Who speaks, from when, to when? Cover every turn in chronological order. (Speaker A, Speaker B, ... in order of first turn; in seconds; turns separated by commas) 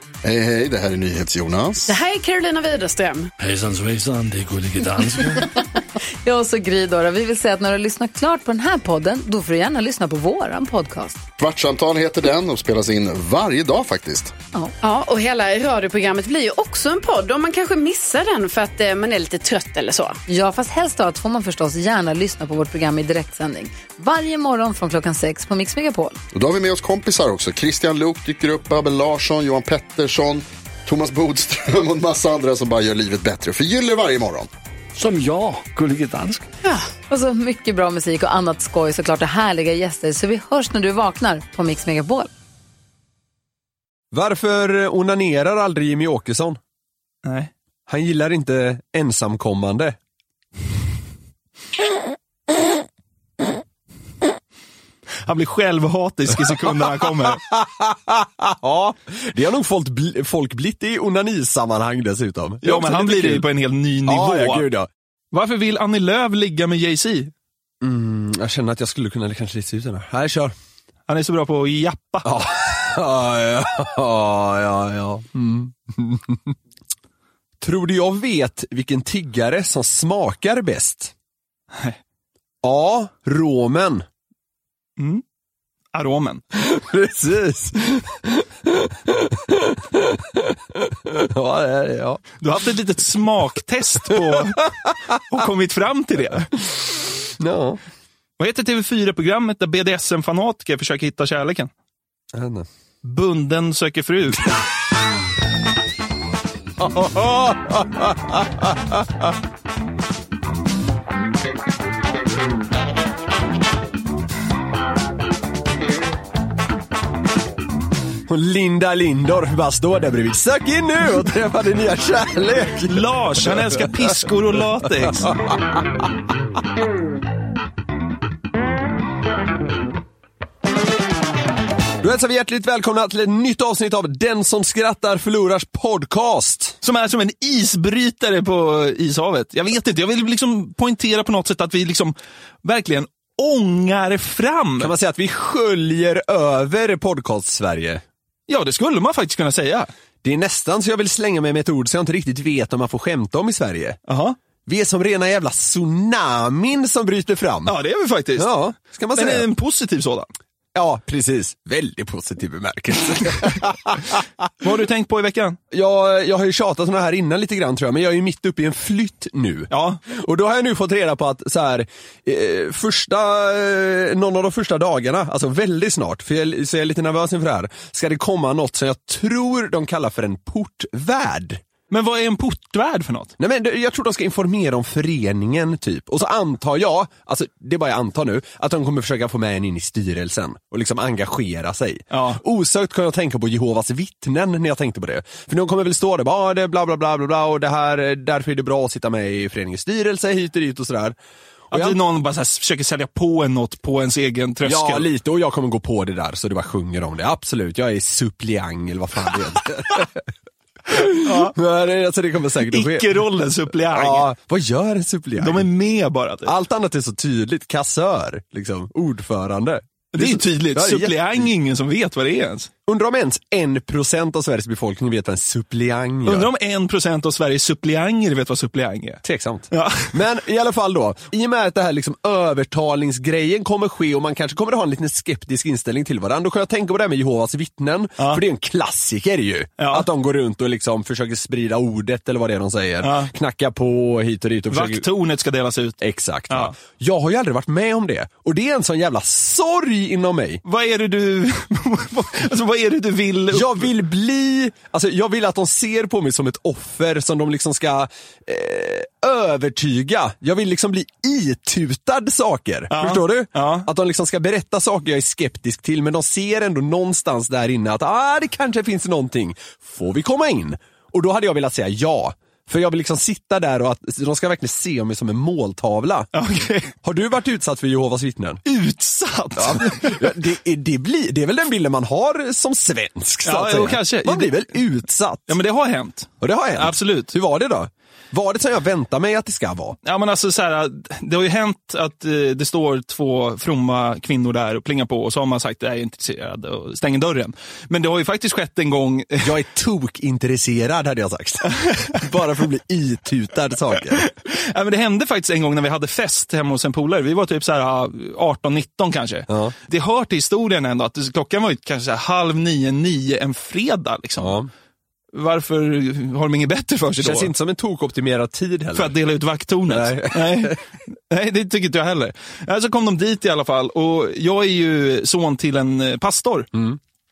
Speaker A: 0.2-1.9, Speaker B: 1.9-3.3, Speaker C: 3.4-5.5, Speaker D: 6.2-11.2, Speaker A: 11.4-14.3, Speaker B: 14.8-20.2, Speaker D: 20.3-26.2, Speaker A: 26.3-34.5, Speaker C: 35.0-36.5, Speaker D: 36.6-42.3, Speaker E: 44.1-46.6, Speaker F: 47.2-47.5, Speaker E: 47.9-50.0, Speaker F: 55.2-57.4, Speaker E: 57.0-63.5, Speaker F: 62.6-64.7, Speaker E: 64.0-64.9, Speaker F: 65.3-67.3, Speaker E: 67.8-70.5, Speaker F: 71.1-72.3, Speaker E: 72.2-76.6, Speaker E: 77.6-81.1, Speaker F: 81.7-82.0, Speaker E: 82.6-84.0, Speaker F: 85.0-85.2, Speaker F: 85.9-86.4, Speaker E: 86.5-92.2, Speaker F: 92.4-94.7, Speaker E: 94.2-95.2, Speaker F: 95.3-96.5, Speaker E: 97.4-97.8, Speaker F: 98.4-101.7, Speaker E: 102.3-102.7, Speaker F: 103.0-104.5, Speaker E: 106.8-109.3, Speaker E: 118.3-124.1, Speaker F: 122.9-125.4, Speaker E: 125.0-126.1, Speaker E: 132.0-136.8, Speaker F: 136.8-144.9, Speaker E: 144.8-148.0, Speaker F: 148.5-149.9, Speaker E: 150.2-154.0, Speaker F: 154.1-154.4, Speaker E: 154.7-157.8, Speaker F: 157.7-158.6, Speaker E: 158.4-159.5, Speaker F: 159.1-160.3, Speaker E: 160.8-164.4, Speaker F: 164.6-165.6, Speaker E: 165.7-181.6, Speaker F: 169.7-170.0, Speaker F: 181.9-183.3, Speaker E: 183.4-201.2, Speaker F: 192.1-192.4, Speaker E: 201.7-202.0, Speaker F: 201.7-205.1, Speaker E: 204.6-210.3, Speaker E: 210.9-215.7, Speaker F: 211.2-211.6, Speaker F: 212.7-214.3, Speaker F: 215.4-216.5, Speaker E: 216.4-221.5, Speaker F: 220.2-222.7, Speaker E: 222.9-226.5, Speaker F: 226.3-230.2, Speaker E: 229.2-245.1, Speaker F: 239.8-240.1, Speaker F: 243.0-243.3, Speaker F: 244.7-246.7, Speaker E: 246.0-250.6, Speaker F: 250.7-253.9, Speaker E: 253.5-276.3, Speaker F: 262.9-263.9, Speaker F: 276.3-276.9, Speaker E: 277.0-278.6, Speaker F: 278.7-280.4, Speaker E: 279.6-285.6, Speaker F: 283.4-284.7, Speaker F: 285.5-287.3, Speaker E: 286.4-290.0, Speaker F: 290.0-299.5, Speaker E: 299.4-304.3, Speaker F: 301.8-302.2, Speaker F: 304.1-314.6, Speaker E: 309.5-309.8, Speaker E: 314.4-314.7, Speaker F: 315.3-317.5, Speaker E: 317.2-319.1, Speaker F: 318.9-326.7, Speaker E: 319.9-320.8, Speaker E: 326.7-327.0